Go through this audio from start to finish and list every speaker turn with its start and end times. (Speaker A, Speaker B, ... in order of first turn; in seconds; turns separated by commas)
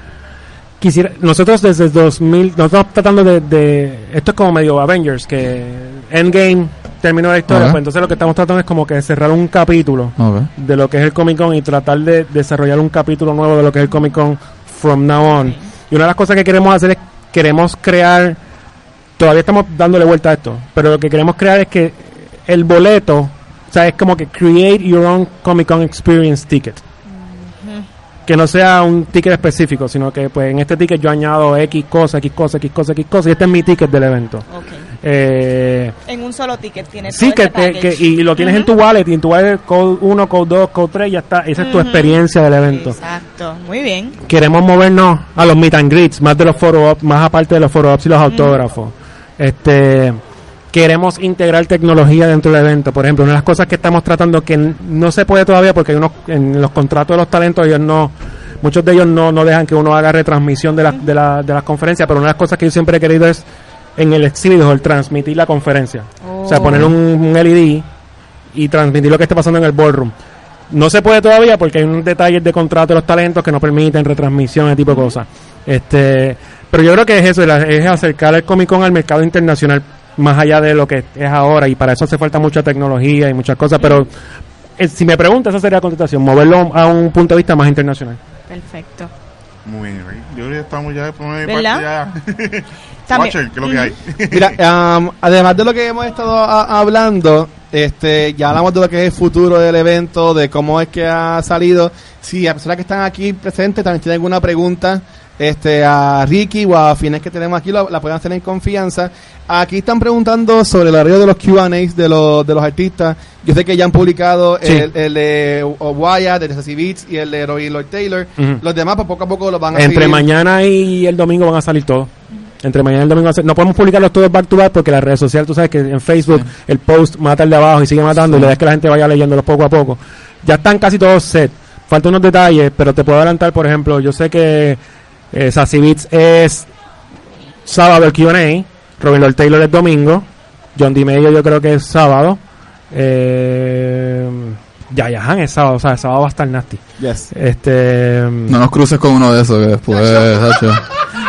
Speaker A: 0.8-18.4, Speaker B: 7.5-7.8, Speaker B: 10.2-10.5, Speaker A: 19.2-26.8, Speaker C: 27.1-27.9, Speaker A: 28.3-34.5, Speaker C: 34.5-34.9, Speaker A: 35.0-35.9, Speaker C: 36.1-38.7, Speaker A: 37.1-43.0, Speaker C: 41.6-44.2, Speaker A: 44.2-50.2, Speaker C: 48.3-48.5, Speaker A: 50.7-63.4, Speaker A: 64.0-67.8, Speaker C: 66.2-66.9, Speaker A: 68.5-70.1, Speaker A: 70.7-84.1, Speaker A: 84.8-88.2, Speaker C: 88.5-89.1, Speaker D: 89.6-94.6, Speaker C: 91.4-92.1, Speaker C: 93.1-93.9, Speaker E: 94.3-120.2, Speaker A: 114.6-114.9, Speaker A: 119.7-122.1, Speaker A: 122.6-134.8, Speaker B: 128.2-128.5, Speaker A: 135.3-136.7, Speaker A: 137.7-142.4, Speaker A: 142.9-148.6, Speaker E: 147.0-147.3, Speaker B: 148.5-150.8